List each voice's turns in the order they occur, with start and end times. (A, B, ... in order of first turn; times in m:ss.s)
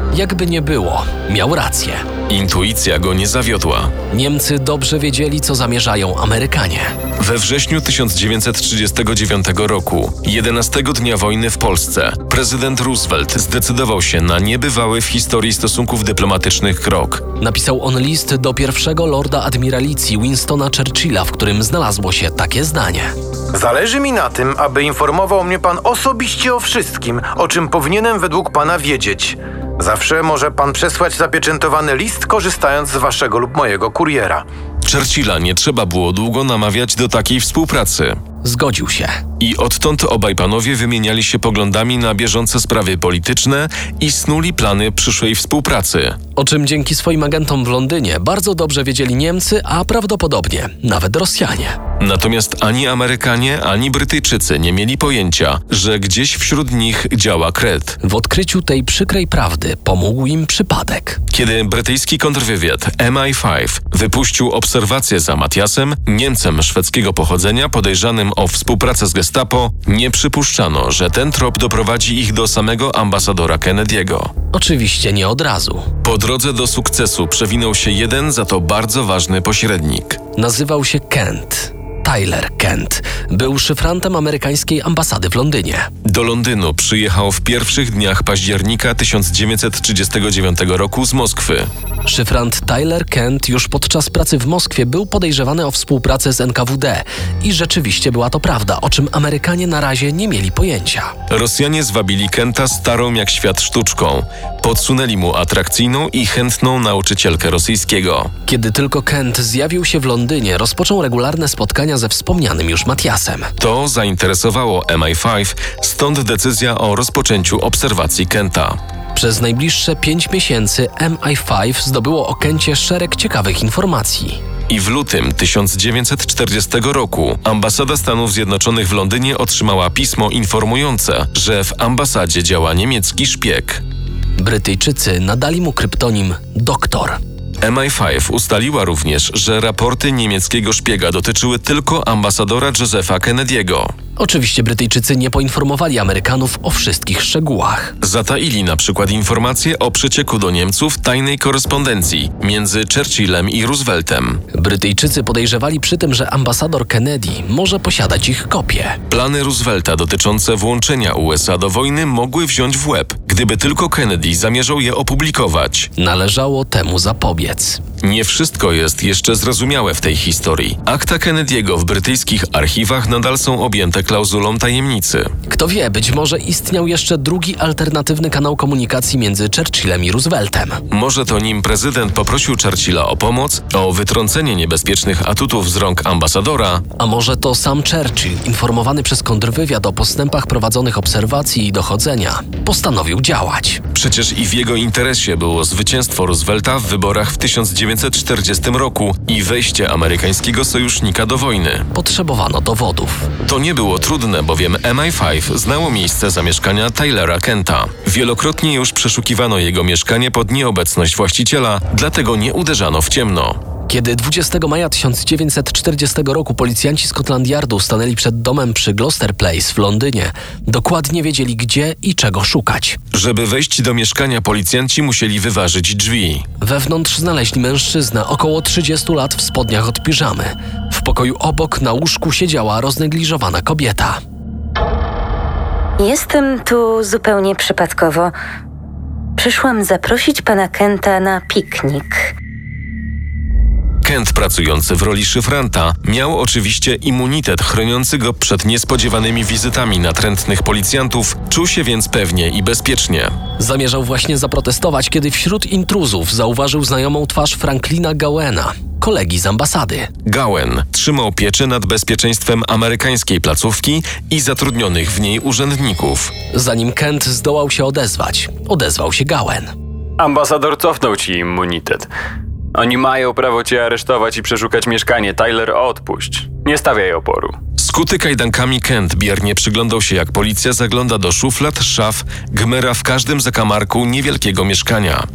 0:00.1-0:02.0 A
0:02.3-0:03.9 B
0:04.1-0:06.9 A
0:07.2-0:17.2 B
0:17.4-0:23.1 A
0:23.5-0:34.4 C
0:34.8-0:38.2 B
0:38.4-0:39.2 A
0:39.4-0:46.2 B
0:46.4-0:51.8 A
0:52.0-0:58.0 B
0:58.0-1:01.2 A
1:01.3-1:14.3 B
1:14.5-1:15.9 A
1:16.0-1:20.2 B
1:20.4-1:25.9 A
1:26.0-1:31.7 B
1:32.0-1:41.1 A
1:41.3-1:48.3 B
1:48.4-1:53.5 A
1:53.6-1:58.8 B
1:59.1-2:04.4 A
2:04.7-2:13.8 B
2:14.4-2:17.2 A
2:17.6-2:23.9 B
2:24.2-2:27.9 A
2:28.0-2:34.4 B
2:34.5-2:39.0 A
2:39.1-2:45.9 B
2:46.0-2:47.8 A
2:48.0-2:55.3 B
2:55.5-3:00.8 A
3:00.9-3:06.8 B
3:07.0-3:13.8 A
3:13.9-3:21.9 B
3:21.9-3:23.3 A
3:23.4-3:33.6 B
3:33.9-3:43.0 A
3:43.1-3:46.4 B
3:46.6-3:54.2 A
3:56.0-3:58.3 D
3:59.4-4:02.3 D
4:04.0-4:13.4 B
4:13.6-4:20.1 A
4:20.2-4:26.3 B
4:26.5-4:29.7 A
4:30.2-4:32.1 E
4:32.7-4:37.6 E
4:37.8-4:45.2 B